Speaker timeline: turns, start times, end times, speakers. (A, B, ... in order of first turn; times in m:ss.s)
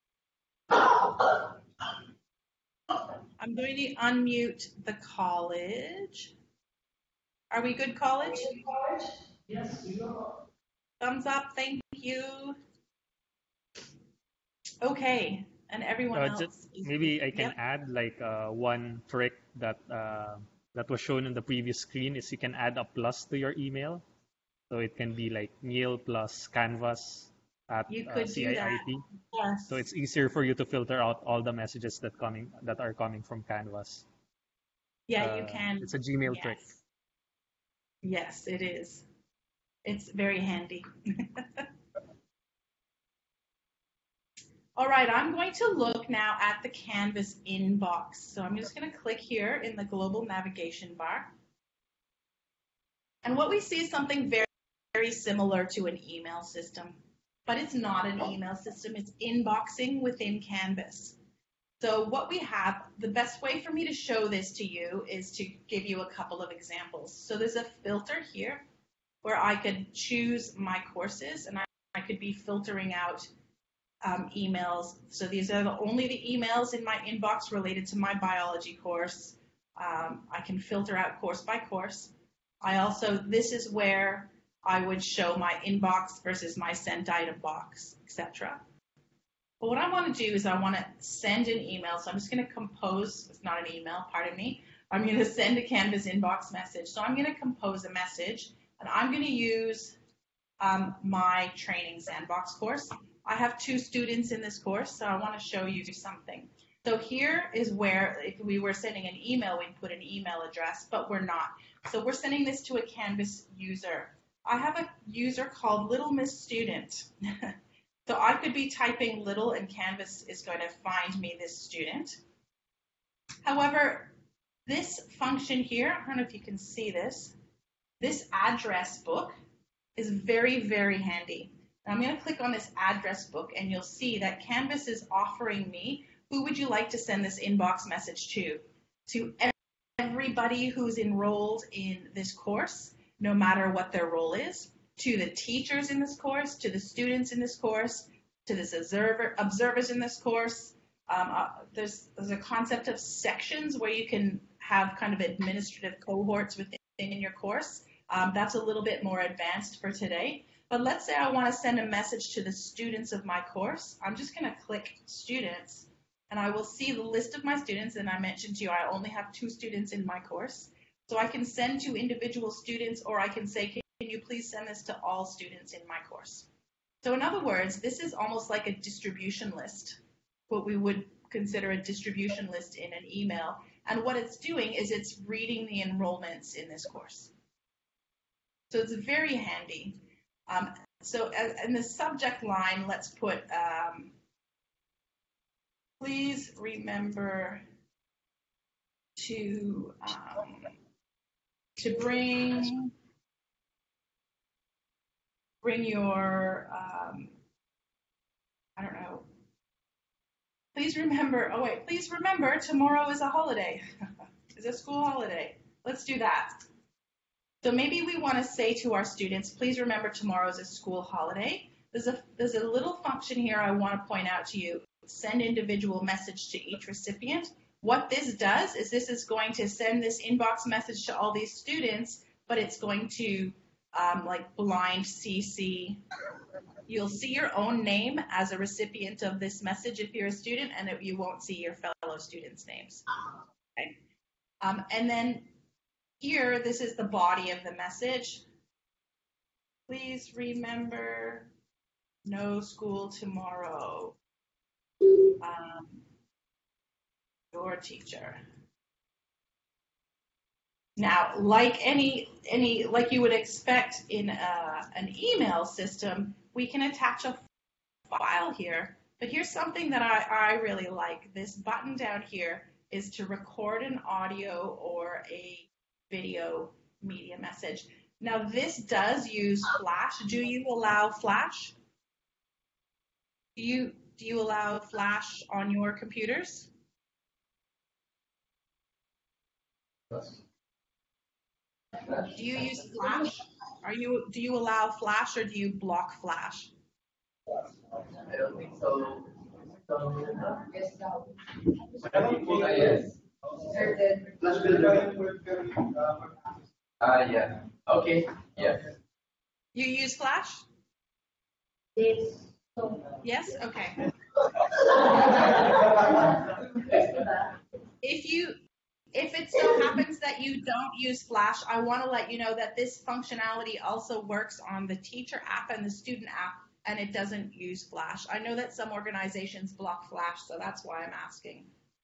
0:03.4-0:06.3 A
0:07.5-0:08.6 A
0:09.5-0:10.0 B
0:11.0-0:12.6 A
0:14.8-0:17.5 A
0:16.1-0:24.0 B
0:24.7-0:29.0 B
0:27.9-0:29.8 A
0:29.7-0:34.0 B
0:35.1-0:36.8 A
0:35.2-0:36.8 B
0:38.0-0:39.0 A
0:39.8-0:41.6 A
0:44.8-0:51.3 A
0:53.2-1:01.2 A
1:01.8-1:08.6 A
1:09.2-1:13.3 A
1:14.0-1:28.6 A
1:29.6-1:40.0 A
1:40.6-1:57.5 A
1:58.0-2:02.2 A
2:03.4-2:04.1 A
2:04.7-2:07.4 A
2:08.0-2:09.4 A
2:10.0-2:56.5 A
2:57.0-3:00.0 A
3:00.5-3:07.3 A
3:08.7-3:14.1 A
3:16.0-3:17.6 A
3:19.2-3:20.7 A
3:21.8-3:22.9 A
3:25.6-3:27.3 A
3:28.8-3:29.2 A
3:30.7-3:33.8 A
3:34.5-3:36.6 A
3:37.6-3:56.0 A
3:56.9-4:03.0 A
4:04.6-4:05.5 A
4:06.2-4:08.4 A
4:09.9-4:11.5 A
4:12.2-4:14.2 A
4:15.4-4:16.0 A
4:17.5-4:18.4 A
4:21.0-4:27.4 A
4:28.1-4:41.7 A
4:43.6-4:46.7 A
4:52.3-4:56.7 A
4:58.1-4:59.3 C
4:59.9-5:00.2 C
5:00.2-5:02.3 D
5:02.0-5:03.1 C
5:03.7-5:04.6 D
5:04.4-5:05.9 C
5:07.0-5:08.9 C
5:09.7-5:10.6 A
5:12.0-5:13.1 D
5:13.2-5:14.0 A
5:14.6-5:17.4 D
5:18.0-5:18.6 A
5:19.1-5:31.7 A